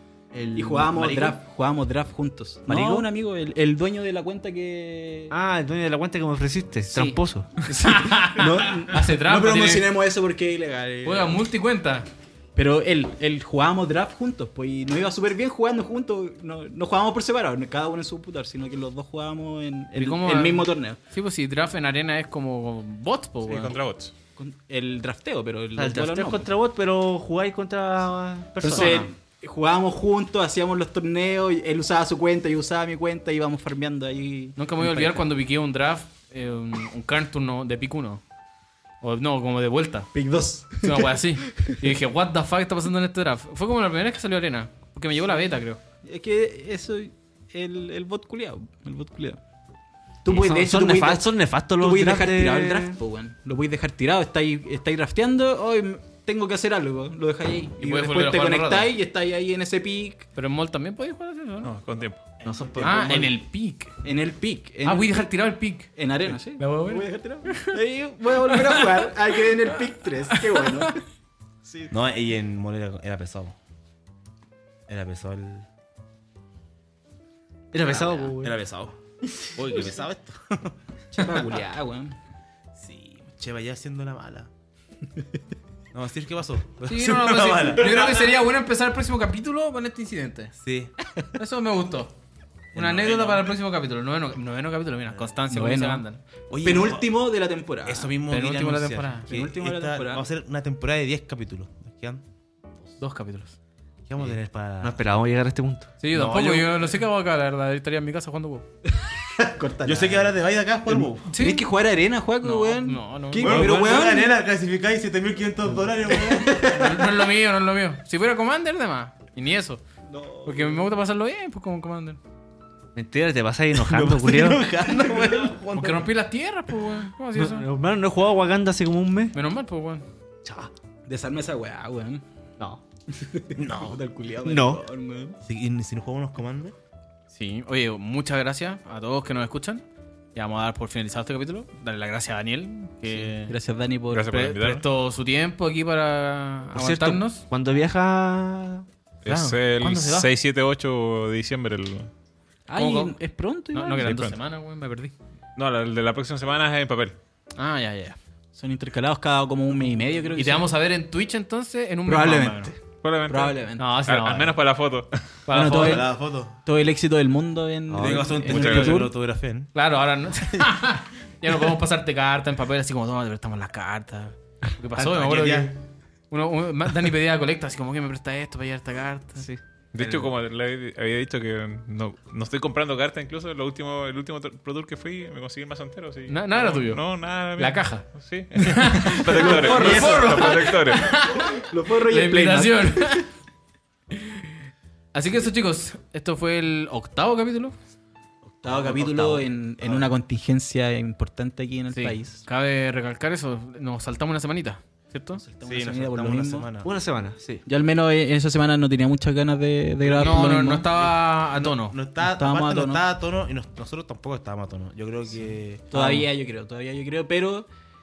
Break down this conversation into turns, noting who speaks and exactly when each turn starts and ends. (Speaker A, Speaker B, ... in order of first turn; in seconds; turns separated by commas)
Speaker A: 0.3-1.4, Speaker B: 0.6-5.3, Speaker A: 2.7-3.0, Speaker A: 5.3-7.5, Speaker B: 6.9-11.4, Speaker C: 7.7-9.9, Speaker C: 11.0-12.1, Speaker B: 12.6-21.0, Speaker C: 19.9-23.8, Speaker D: 23.4-24.1, Speaker B: 24.4-26.5, Speaker A: 25.8-29.1, Speaker B: 28.6-35.2, Speaker C: 28.6-29.1, Speaker C: 34.6-38.2, Speaker C: 39.0-40.1, Speaker B: 40.1-41.9, Speaker C: 40.8-45.8, Speaker B: 46.0-49.4, Speaker B: 50.2-60.3, Speaker A: 50.3-53.0, Speaker C: 57.8-58.9, Speaker C: 60.4-61.7, Speaker D: 61.6-62.2, Speaker A: 62.5-63.3, Speaker E: 62.5-63.2, Speaker C: 62.8-63.9, Speaker B: 64.0-65.3, Speaker C: 64.8-65.9, Speaker B: 65.9-71.0, Speaker C: 66.6-67.8, Speaker C: 68.4-69.5, Speaker C: 70.3-71.0, Speaker B: 71.7-71.9, Speaker E: 71.9-73.5, Speaker E: 74.9-75.7, Speaker A: 77.7-78.6, Speaker E: 77.8-80.8, Speaker B: 81.1-82.2, Speaker E: 82.7-84.5, Speaker E: 85.9-88.3, Speaker C: 86.9-90.5, Speaker E: 90.6-91.0, Speaker C: 91.4-92.1, Speaker E: 92.7-93.5, Speaker C: 92.7-96.2, Speaker B: 95.5-96.0, Speaker E: 96.5-97.2, Speaker B: 96.6-98.1, Speaker E: 97.8-102.2, Speaker C: 98.3-99.3, Speaker B: 99.3-100.2, Speaker C: 103.0-103.5, Speaker E: 104.0-105.0, Speaker A: 104.2-105.9, Speaker C: 106.0-108.7, Speaker E: 106.1-106.9, Speaker B: 109.0-114.3, Speaker E: 109.8-111.3, Speaker C: 111.3-111.6, Speaker C: 112.4-114.0, Speaker E: 113.4-117.0, Speaker B: 116.1-117.0, Speaker C: 116.4-119.8, Speaker E: 120.1-121.0, Speaker C: 120.5-122.2, Speaker A: 123.0-124.6, Speaker E: 123.7-126.1, Speaker C: 125.7-127.7, Speaker A: 127.3-129.3, Speaker C: 129.3-130.1, Speaker A: 130.4-130.7, Speaker B: 131.1-132.2, Speaker B: 133.1-135.4, Speaker E: 133.6-134.0, Speaker A: 134.4-134.8, Speaker E: 135.4-136.7, Speaker C: 137.3-139.8, Speaker C: 140.3-143.6, Speaker B: 143.4-144.3, Speaker D: 144.1-144.8, Speaker C: 144.3-147.4, Speaker A: 146.7-148.8, Speaker D: 149.2-152.1, Speaker C: 149.3-150.3, Speaker B: 152.7-154.3, Speaker C: 152.7-153.1, Speaker C: 153.7-155.1, Speaker D: 154.0-154.3, Speaker D: 155.6-157.2, Speaker C: 157.6-158.2, Speaker B: 158.5-160.7, Speaker C: 160.3-162.7, Speaker B: 162.1-163.9, Speaker D: 163.0-165.2, Speaker C: 163.8-164.6, Speaker C: 165.5-166.1, Speaker B: 165.5-169.2, Speaker E: 165.7-166.6, Speaker A: 167.9-169.1, Speaker E: 168.0-169.7, Speaker D: 168.5-169.0, Speaker C: 169.7-175.7, Speaker E: 174.9-175.7, Speaker C: 176.3-180.3, Speaker D: 179.9-191.1, Speaker C: 186.3-187.0, Speaker C: 187.6-193.3, Speaker B: 189.3-193.2, Speaker E: 189.5-190.5, Speaker C: 194.2-194.6, Speaker C: 195.1-197.7, Speaker E: 198.4-200.1, Speaker B: 198.6-202.4, Speaker C: 201.9-205.4, Speaker B: 205.4-206.7, Speaker E: 205.6-206.9, Speaker A: 206.8-207.6, Speaker B: 207.7-210.9, Speaker E: 210.0-216.2, Speaker C: 210.2-212.0, Speaker B: 212.2-213.0, Speaker B: 215.9-217.7